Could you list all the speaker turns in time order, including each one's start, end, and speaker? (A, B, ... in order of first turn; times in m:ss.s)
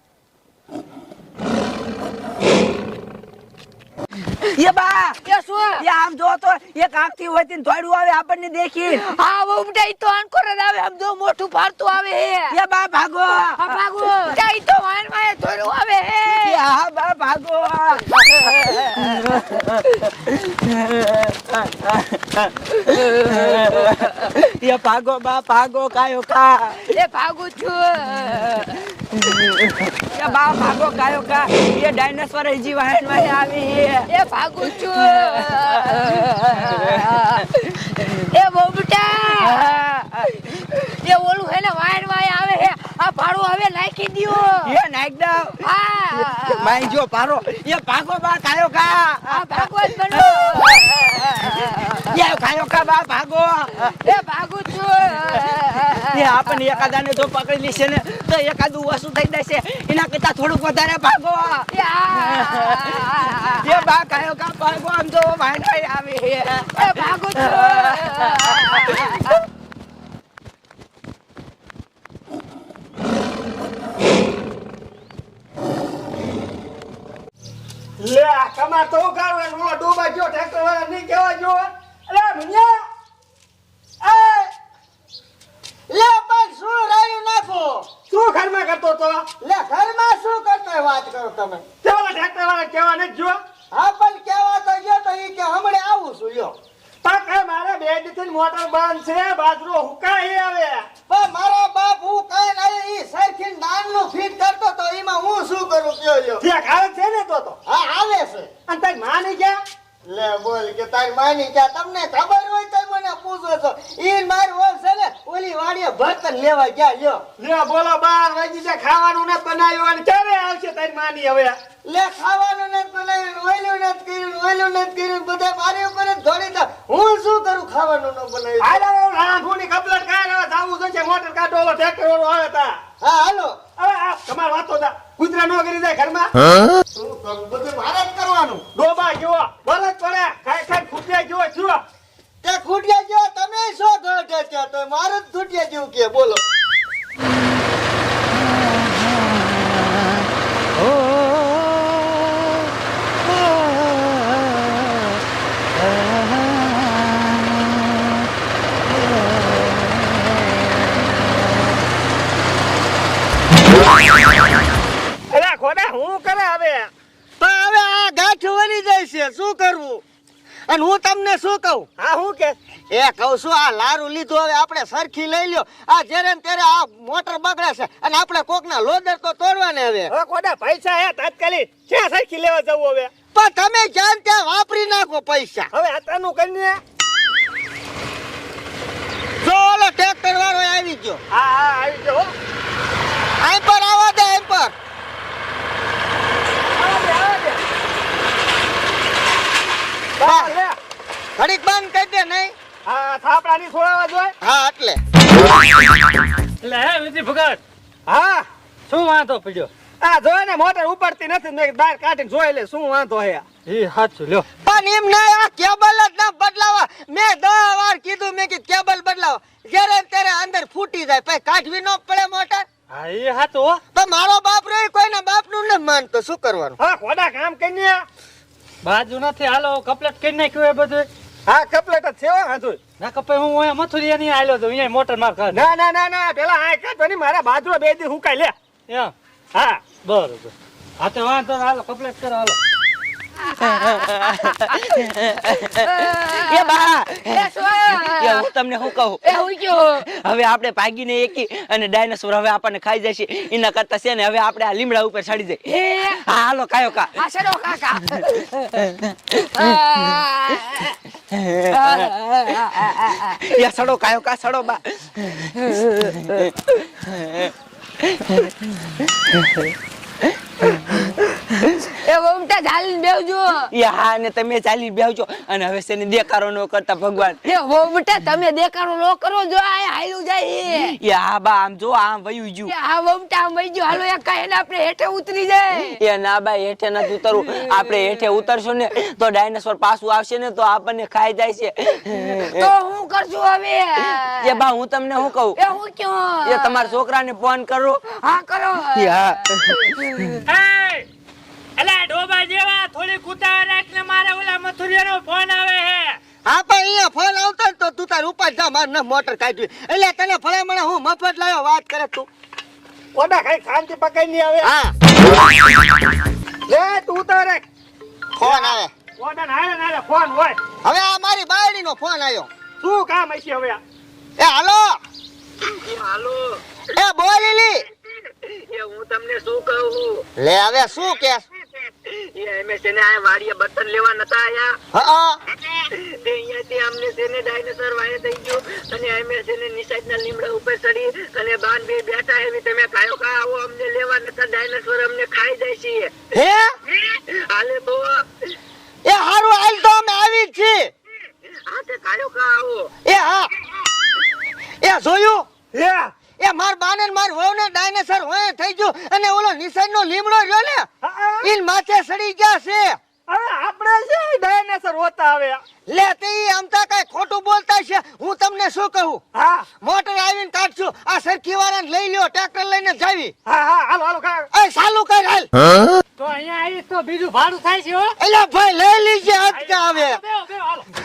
0:04.4-0:05.2 A
0:05.2-0:05.8 B
0:05.8-0:09.1 A
0:09.0-0:12.6 B
0:12.5-0:13.8 A
0:13.6-0:16.6 B
0:16.3-0:26.9 A
0:18.2-0:19.5 B
0:26.9-0:28.8 B
0:29.1-0:34.1 A
0:34.1-0:39.7 B
0:34.6-0:38.2 A
0:39.4-0:40.4 A
0:40.5-0:44.7 B
0:44.6-0:45.6 A
0:45.6-0:46.9 B
0:46.6-0:50.8 A
0:49.3-0:52.1 B
0:52.0-0:54.0 A
0:53.8-0:56.6 B
0:56.0-1:09.4 A
1:01.7-1:03.9 B
1:06.7-1:09.4 B
1:18.0-1:22.8 C
1:24.0-1:24.5 C
1:25.9-1:27.9 D
1:28.1-1:29.3 C
1:29.4-1:31.6 D
1:31.8-1:33.4 C
1:33.7-1:36.5 D
1:37.0-1:40.9 C
1:41.1-1:46.4 D
1:46.4-1:47.6 C
1:47.7-1:48.5 D
1:48.7-1:49.6 C
1:50.0-1:57.2 D
1:57.4-2:01.6 C
2:01.8-2:08.8 D
2:08.6-2:12.8 C
2:13.0-2:13.6 D
2:13.8-2:16.4 C
2:16.9-2:18.6 D
2:18.7-2:21.8 C
2:22.4-2:26.4 D
2:45.3-2:46.9 C
2:47.4-2:50.0 D
2:50.7-2:51.9 D
2:52.0-2:52.6 C
2:52.9-3:00.1 D
3:00.1-3:03.1 C
3:03.3-3:05.7 D
3:05.7-3:06.8 C
3:09.4-3:11.2 D
3:11.3-3:12.3 C
3:13.4-3:14.7 D
3:16.8-3:17.6 C
3:20.2-3:20.8 C
3:20.2-3:20.5 D
3:21.4-3:22.5 D
3:22.9-3:24.3 C
3:24.4-3:25.0 D
3:26.6-3:27.6 E
3:28.1-3:28.5 C
3:28.9-3:29.7 E
3:30.0-3:33.4 C
3:33.7-3:34.5 E
3:34.6-3:42.7 D
3:42.9-3:43.8 E
3:43.9-3:46.8 D
3:46.8-3:48.0 C
3:48.8-3:51.1 E
3:51.5-3:52.8 C
3:53.0-3:55.6 E
3:55.5-3:58.6 C
3:59.6-3:59.9 C
4:00.0-4:02.6 E
4:03.6-4:09.4 A
4:03.6-4:04.8 B
4:05.5-4:08.5 B
4:09.2-4:10.0 B
4:10.0-4:17.2 A
4:15.7-4:16.2 B
4:17.2-4:18.8 B
4:18.8-4:20.2 A
4:19.5-4:21.0 B
4:21.3-4:29.7 A
4:21.7-4:23.4 B
4:30.7-4:33.7 B
4:30.9-4:31.1 A
4:33.7-4:37.4 A
4:37.5-4:41.0 B
4:40.8-4:42.7 A
4:42.7-4:46.0 B
4:46.0-4:52.7 A
4:52.3-4:54.6 B
4:54.0-4:55.6 A
4:55.6-4:56.9 B
4:56.4-4:58.0 A
4:58.2-5:00.0 B
4:59.0-5:00.4 A
5:00.5-5:01.1 E
5:01.8-5:06.2 E
5:06.5-5:12.3 D
5:13.2-5:14.7 C
5:14.6-5:14.9 D
5:16.7-5:17.6 C
5:18.4-5:18.9 D
5:18.4-5:20.6 C
5:20.8-5:22.5 D
5:22.8-5:23.8 C
5:24.4-5:25.0 D
5:25.6-5:26.6 A
5:26.9-5:27.8 D
5:28.2-5:30.3 A
5:30.4-5:31.4 D
5:31.8-5:34.8 A
5:34.9-5:35.4 D
5:35.6-5:46.2 A
5:46.3-5:46.7 D
5:47.0-5:48.3 A
5:49.0-5:50.9 D
5:51.5-5:53.0 A
5:53.0-5:53.5 D
5:54.8-5:55.5 D
5:55.7-5:56.1 C
5:56.4-6:00.9 D
6:01.0-6:01.5 C
6:01.4-6:03.0 D
6:03.3-6:05.6 C
6:05.9-6:09.2 D
6:09.4-6:09.7 C
6:09.8-6:13.3 D
6:13.5-6:14.5 C
6:14.5-6:15.5 D
6:16.2-6:18.2 E
6:18.2-6:20.2 D
6:19.5-6:20.9 C